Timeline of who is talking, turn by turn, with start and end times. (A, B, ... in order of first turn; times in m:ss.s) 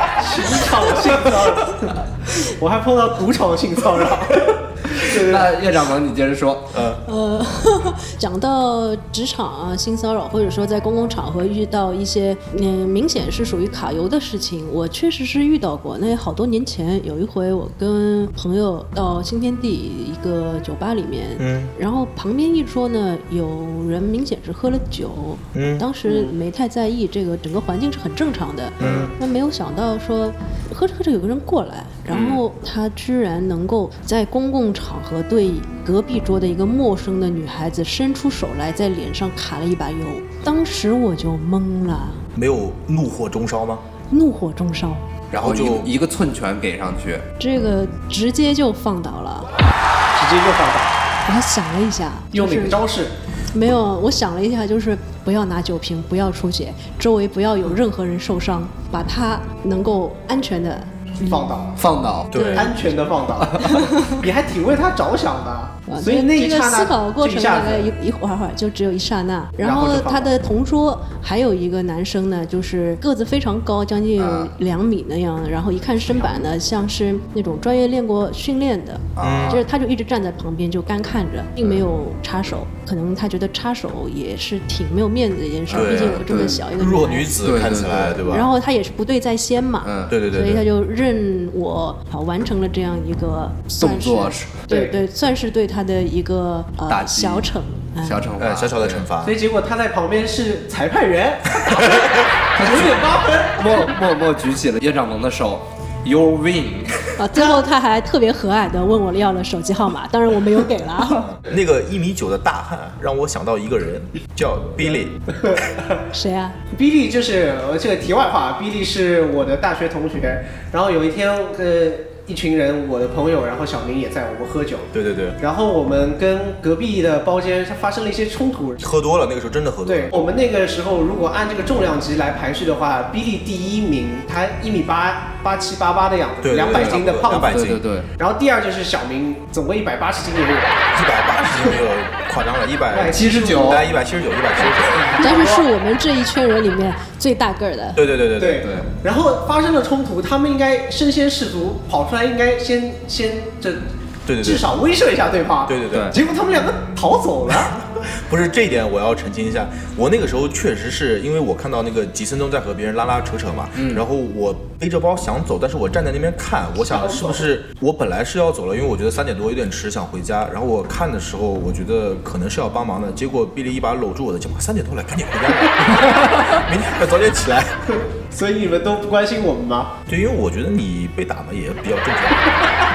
0:00.2-0:05.5 A
0:05.0-0:06.8 B
0:06.7-0:07.0 C
0:07.0-0:42.2 D
0:21.4-0:21.7 C
0:25.5-0:25.9 C
0:26.0-0:26.4 A
0:28.8-0:29.1 C
0:28.8-0:29.1 B
0:42.4-0:43.8 C
0:44.1-0:45.1 D
0:45.3-0:47.3 B
0:45.4-0:45.9 C
0:47.4-0:49.5 D
0:50.1-0:51.0 A
0:51.3-0:52.8 D
0:52.3-0:53.1 A
0:53.5-1:01.5 D
1:01.3-1:01.8 A
1:01.8-1:02.6 B
1:02.3-1:02.7 C
1:02.3-1:02.7 D
1:02.5-1:07.9 A
1:03.4-1:03.9 B
1:03.7-1:04.2 D
1:05.9-1:27.4 D
1:09.6-1:10.3 A
1:14.2-1:14.5 B
1:16.2-1:16.5 A
1:19.2-1:19.6 B
1:19.2-1:19.6 C
1:25.7-1:26.6 B
1:25.7-1:28.5 C
1:27.4-1:28.3 B
1:28.3-1:38.3 D
1:29.8-1:30.2 B
1:30.1-1:30.6 C
1:33.8-1:34.6 B
1:34.7-1:35.0 A
1:36.9-1:37.5 B
1:38.0-1:39.1 B
1:38.4-1:39.4 C
1:39.2-1:43.9 A
1:42.6-1:47.2 B
1:47.2-1:51.3 D
1:47.4-1:47.6 A
1:51.2-1:55.2 C
1:55.3-1:56.0 A
1:56.1-1:56.6 D
1:56.7-2:08.9 A
2:04.9-2:05.4 C
2:08.8-2:10.1 C
2:09.9-2:17.6 A
2:16.4-2:17.9 C
2:16.6-2:18.1 B
2:18.2-2:20.9 A
2:20.9-2:25.1 C
2:22.9-2:23.8 A
2:23.1-2:23.9 B
2:24.8-2:25.7 A
2:25.2-2:28.0 D
2:28.0-2:28.7 C
2:28.4-2:33.8 A
2:28.6-2:28.9 B
2:34.3-2:34.6 C
2:34.4-2:37.7 A
2:35.7-2:36.2 C
2:37.5-2:57.8 C
2:43.8-2:44.0 B
2:46.8-2:47.5 A
2:56.1-2:56.4 B
2:57.9-2:59.9 A
3:00.1-3:02.6 C